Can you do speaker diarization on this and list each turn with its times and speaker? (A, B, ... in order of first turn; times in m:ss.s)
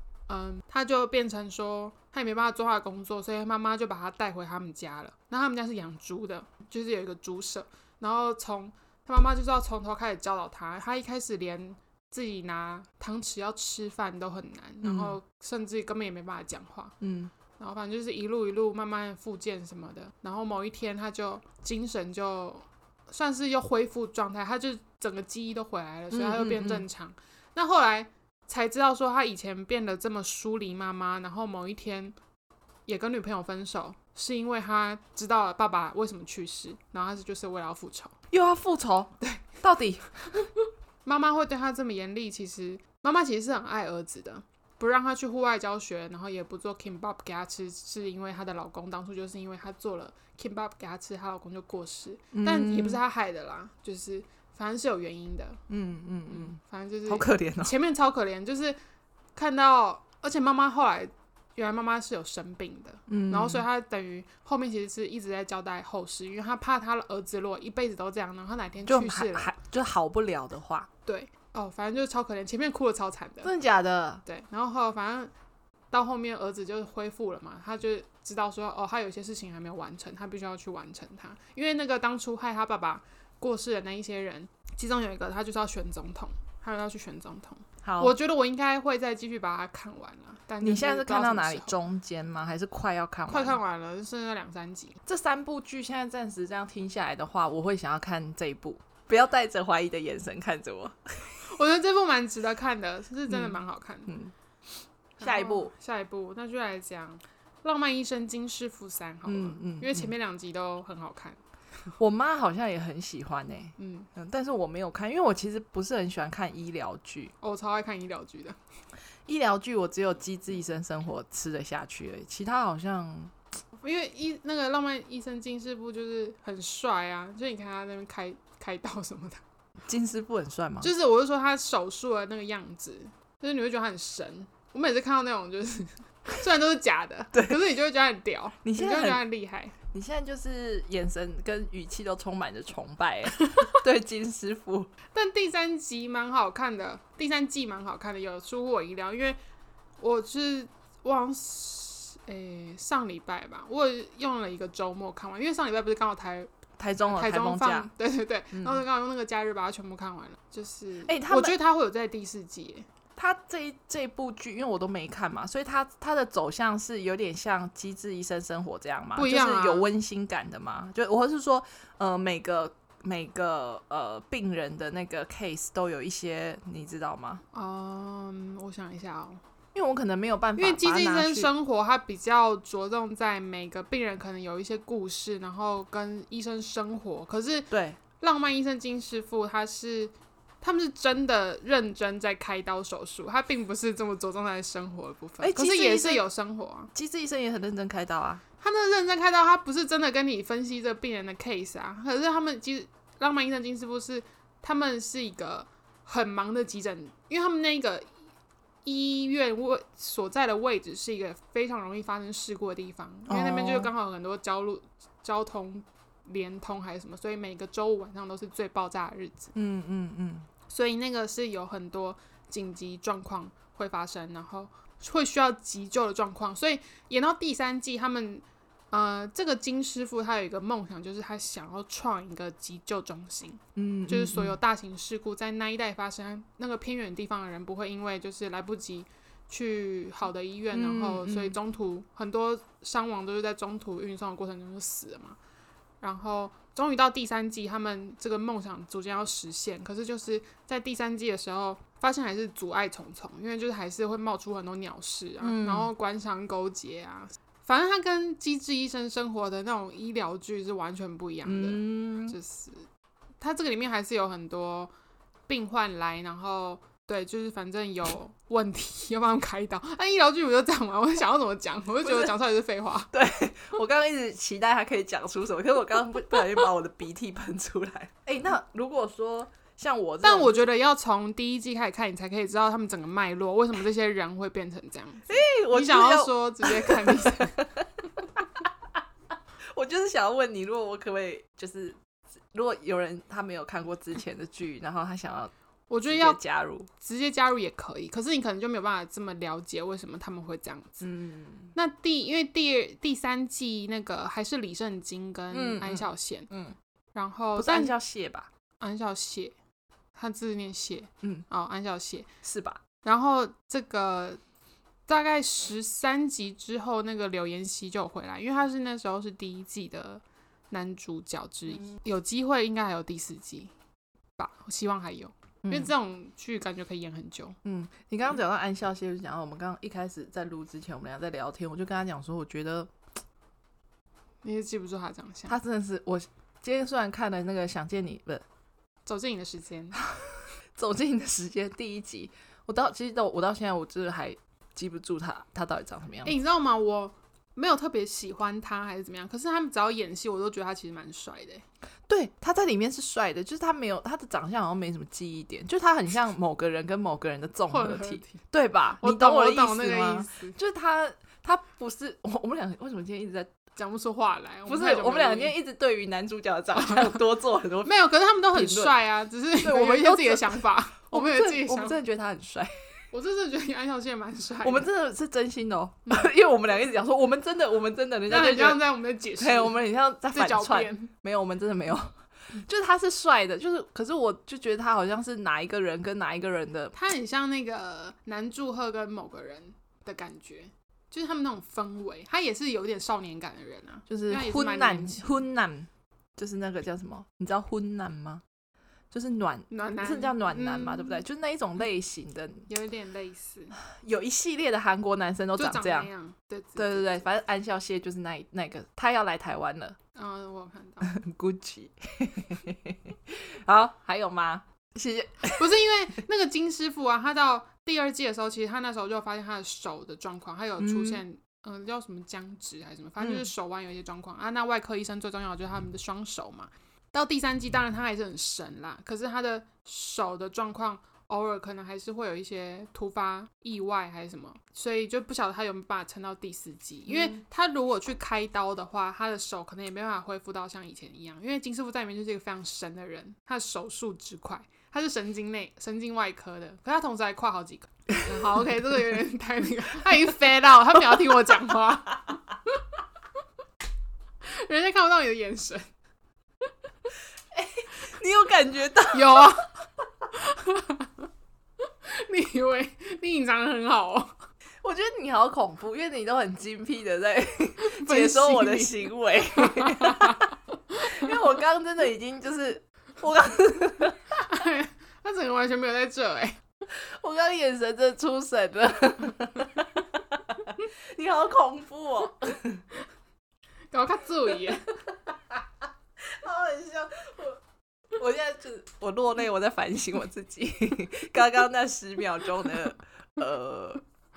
0:00.3-0:17.0 A
0:14.8-0:15.2 B
0:17.0-0:17.3 B
0:17.6-0:32.2 A
0:26.1-0:26.8 B
0:32.9-0:38.1 A
0:38.3-0:40.1 B
0:41.0-0:55.6 A
0:52.3-0:53.0 B
0:55.7-0:57.7 B
0:56.3-0:58.8 A
0:59.3-1:09.5 A
1:03.1-1:03.6 B
1:08.8-1:10.9 B
1:11.0-1:13.5 A
1:13.4-1:14.2 B
1:14.2-1:15.3 A
1:15.9-1:31.8 A
1:27.8-1:28.1 B
1:30.6-1:33.6 B
1:33.3-1:35.0 A
1:35.0-1:41.4 B
1:41.4-1:44.1 A
1:43.3-1:44.3 B
1:45.2-1:45.7 B
1:45.2-1:51.4 A
1:49.2-1:50.1 B
1:52.0-1:57.3 B
1:53.8-1:54.1 A
1:57.4-1:58.6 A
1:59.2-2:03.3 B
2:03.8-2:09.4 A
2:09.8-2:10.9 B
2:10.8-2:19.7 A
2:17.3-2:17.6 B
2:18.6-2:19.2 B
2:19.9-2:24.9 B
2:23.3-2:23.8 A
2:25.1-2:29.4 A
2:30.0-2:36.5 A
2:36.8-2:37.9 B
2:37.1-2:42.9 A
2:38.5-2:38.8 B
2:41.0-2:41.6 B
2:43.2-2:57.4 B
2:49.2-2:49.9 A
2:57.5-2:59.4 A
2:59.7-3:01.5 B
3:00.6-3:16.9 A
3:07.7-3:08.0 B
3:15.4-3:16.2 B
3:16.9-3:18.4 B
3:18.6-3:28.1 A
3:28.8-3:39.5 A
3:33.3-3:33.9 B
3:39.5-3:40.5 B
3:40.7-4:05.4 A
3:53.8-3:54.6 B
4:00.7-4:01.6 B
4:06.0-4:22.9 A
4:15.4-4:15.9 B
4:21.4-4:22.4 B
4:23.4-4:24.9 A
4:25.5-4:33.1 A
4:32.0-4:32.3 B
4:33.1-4:40.6 B
4:40.2-4:47.6 A
4:45.3-4:48.7 B
4:49.7-4:52.0 B
4:52.5-4:55.5 B
4:55.9-4:56.4 A
4:56.1-4:56.9 B
4:57.0-5:01.0 A
5:01.0-5:01.7 B
5:01.7-5:06.5 A
5:05.5-5:06.8 B
5:07.1-5:07.9 A
5:07.6-5:08.5 B
5:08.8-5:09.5 A
5:10.1-5:12.3 A
5:12.4-5:12.8 B
5:13.0-5:14.4 A
5:15.1-5:23.7 A
5:24.4-5:27.6 A
5:25.6-5:25.9 B
5:27.6-5:32.9 B
5:34.4-5:35.6 A
5:35.5-5:38.4 B
5:39.0-5:40.0 A
5:40.0-5:46.3 B
5:46.2-5:51.6 A
5:52.1-6:03.5 B
5:57.7-5:58.4 A
5:59.0-6:00.6 A
6:03.8-6:05.6 A
6:04.7-6:07.9 B
6:06.8-6:07.2 A
6:07.8-6:12.0 A
6:08.5-6:08.9 B
6:09.6-6:12.7 B
6:13.1-6:14.9 A
6:14.6-6:18.8 B
6:18.3-6:19.8 A
6:19.4-6:26.9 B
6:20.3-6:21.1 A
6:26.9-6:35.4 A
6:34.1-6:38.4 B
6:39.1-6:42.7 B
6:39.7-6:41.2 A
6:42.7-6:43.8 A
6:43.8-6:46.1 B
6:45.6-6:47.2 A
6:46.8-6:50.0 B
6:50.1-6:51.1 A
6:51.0-6:55.7 B
6:55.6-7:32.8 A
7:00.8-7:01.2 B
7:03.2-7:03.5 B
7:17.1-7:17.4 B
7:34.4-7:35.8 A
7:37.5-7:39.6 B
7:39.1-7:39.7 A
7:40.3-7:41.3 A
7:42.0-7:44.4 A
7:44.8-7:54.2 B
7:47.8-7:51.3 A
7:54.3-7:56.6 A
7:56.9-8:02.8 B
8:03.9-8:04.9 A
8:05.3-8:05.6 B
8:06.2-8:07.6 B
8:08.1-8:14.0 B